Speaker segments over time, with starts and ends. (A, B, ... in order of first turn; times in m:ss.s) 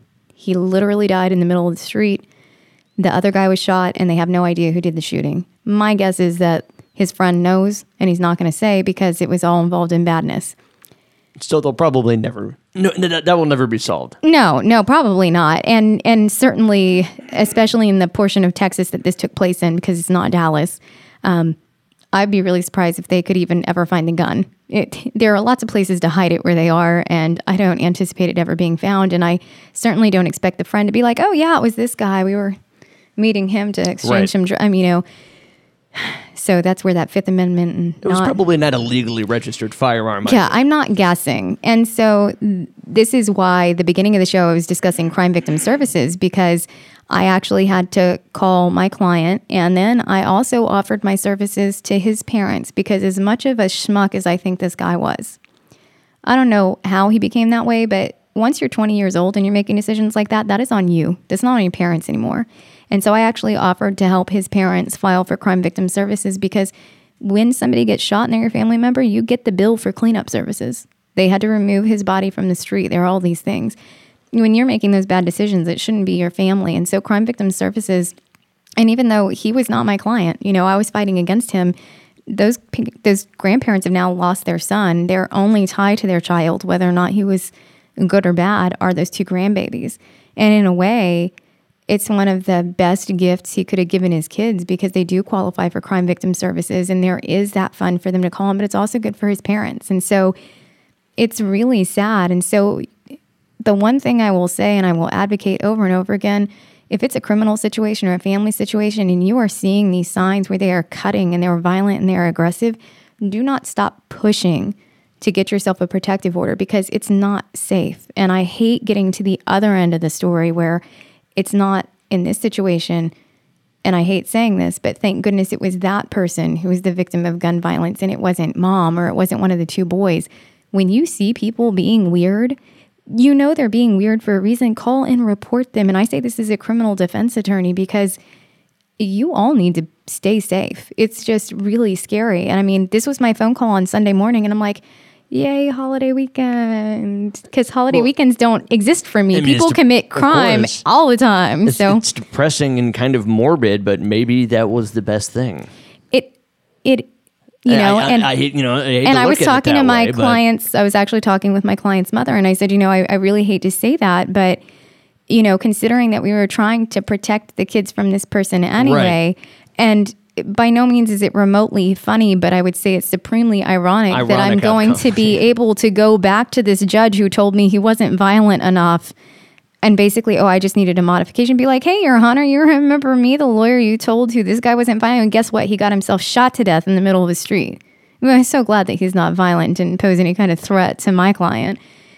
0:00.4-0:02.2 A
0:03.0-0:10.5 A
0:11.4-0:14.2 B
0:14.2-0:21.6 A
0:22.1-0:32.6 A
0:33.2-0:35.0 A
0:34.0-0:34.3 B
0:35.9-0:38.4 A
0:38.0-0:40.5 B
0:40.2-0:55.4 A
0:56.2-1:13.8 A
1:14.3-1:18.1 A
1:18.8-1:21.7 A
1:22.3-1:31.3 A
1:31.9-1:40.3 A
1:41.2-1:42.9 A
1:43.6-2:00.8 A
2:01.4-2:03.1 A
2:03.8-2:12.6 A
2:13.1-2:18.2 A
2:19.0-2:32.0 A
2:29.3-2:30.8 B
2:31.6-2:35.7 B
2:37.6-2:38.4 A
2:37.7-2:40.4 B
2:39.0-2:44.6 A
2:45.3-2:59.1 A
2:48.8-2:49.2 B
2:54.1-2:55.4 B
2:59.8-3:11.8 A